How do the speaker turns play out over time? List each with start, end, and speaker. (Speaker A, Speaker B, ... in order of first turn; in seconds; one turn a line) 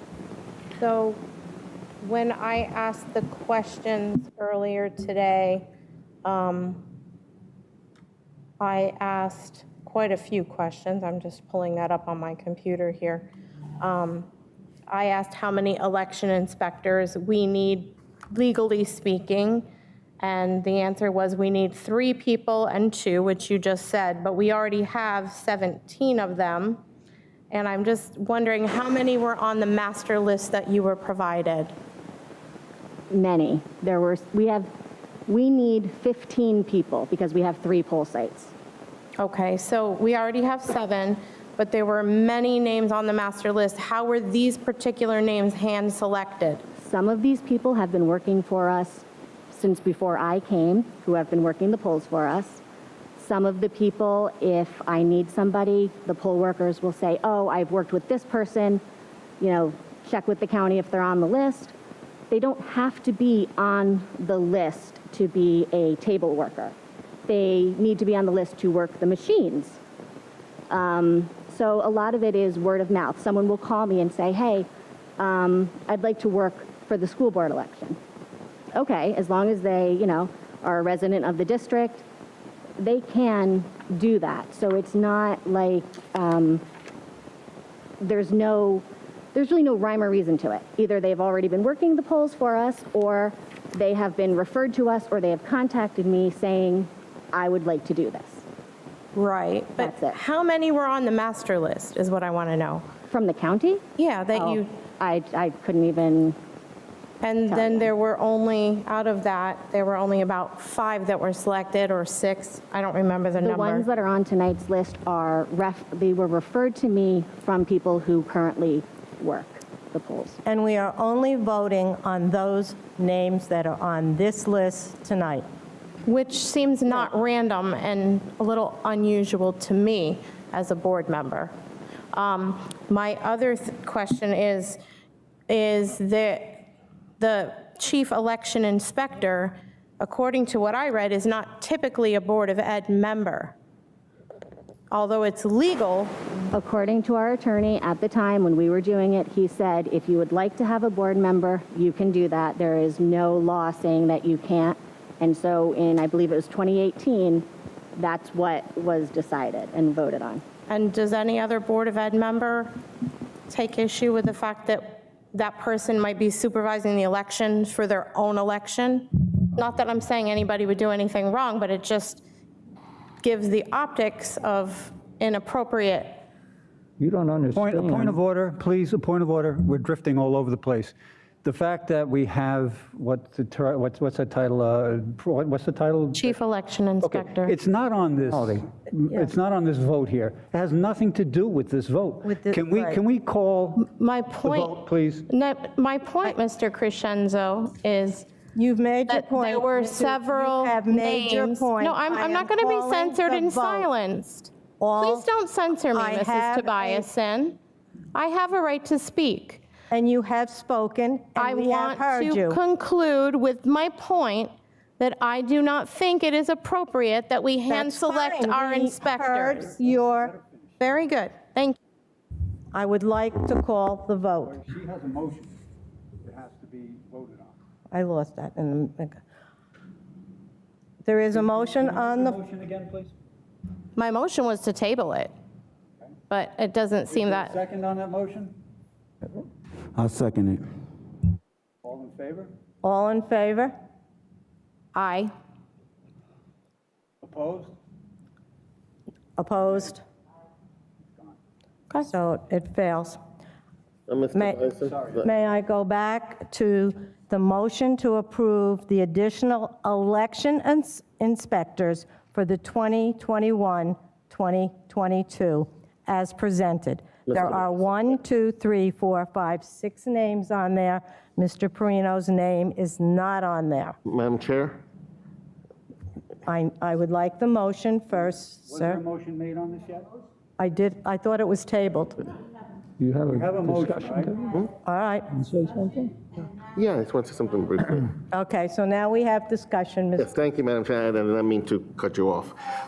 Speaker A: 0.8-1.2
Speaker A: 2.0-5.7
Speaker A: 6.2-6.9
Speaker A: 8.6-14.3
Speaker A: 14.9-19.7
Speaker A: 20.2-26.8
Speaker A: 27.5-31.7
Speaker B: 33.1-34.7
Speaker B: 35.3-38.5
Speaker A: 39.2-46.6
Speaker B: 46.8-52.6
Speaker B: 53.2-58.8
Speaker B: 59.4-61.7
Speaker B: 62.3-66.8
Speaker B: 67.3-69.8
Speaker B: 70.7-74.7
Speaker B: 75.2-78.0
Speaker B: 78.7-82.0
Speaker B: 82.8-86.6
Speaker B: 88.0-98.5
Speaker A: 99.2-102.9
Speaker B: 99.8-100.2
Speaker B: 103.1-106.4
Speaker A: 104.0-104.7
Speaker A: 107.2-113.8
Speaker B: 107.5-107.9
Speaker B: 113.4-120.4
Speaker C: 120.5-125.5
Speaker A: 126.1-131.5
Speaker A: 132.1-134.8
Speaker A: 135.5-136.7
Speaker A: 137.2-143.6
Speaker A: 144.9-146.1
Speaker B: 146.5-160.4
Speaker A: 160.7-162.8
Speaker A: 163.5-172.2
Speaker A: 173.2-176.2
Speaker D: 177.0-178.2
Speaker E: 177.6-186.4
Speaker A: 186.1-187.5
Speaker E: 187.0-193.9
Speaker D: 188.3-188.6
Speaker C: 192.2-193.0
Speaker A: 193.8-198.3
Speaker E: 194.4-195.3
Speaker C: 198.6-203.9
Speaker A: 199.1-207.6
Speaker C: 204.8-205.3
Speaker C: 205.9-207.1
Speaker A: 208.1-209.6
Speaker C: 209.9-212.6
Speaker A: 211.4-219.7
Speaker C: 217.7-220.3
Speaker E: 219.5-220.8
Speaker A: 220.8-221.8
Speaker C: 222.7-224.6
Speaker E: 224.4-225.5
Speaker E: 226.2-227.6
Speaker C: 227.9-229.2
Speaker C: 231.1-232.4
Speaker E: 231.3-233.1
Speaker A: 234.0-235.3
Speaker A: 236.3-237.6
Speaker E: 237.1-238.6
Speaker E: 239.9-240.6
Speaker E: 241.8-242.5
Speaker C: 242.8-243.7
Speaker A: 244.9-245.3
Speaker E: 247.2-247.8
Speaker C: 249.4-250.0
Speaker C: 252.1-253.2
Speaker F: 254.1-255.3
Speaker C: 254.3-254.6
Speaker E: 254.8-255.2
Speaker C: 255.2-274.0
Speaker F: 267.3-267.6
Speaker F: 274.1-274.8
Speaker C: 276.5-279.0
Speaker E: 278.2-280.1
Speaker C: 280.6-282.3
Speaker D: 283.0-284.6
Speaker E: 283.3-284.6
Speaker C: 284.8-285.3
Speaker D: 285.4-286.2
Speaker F: 286.8-288.1
Speaker C: 288.3-290.3
Speaker F: 290.2-292.6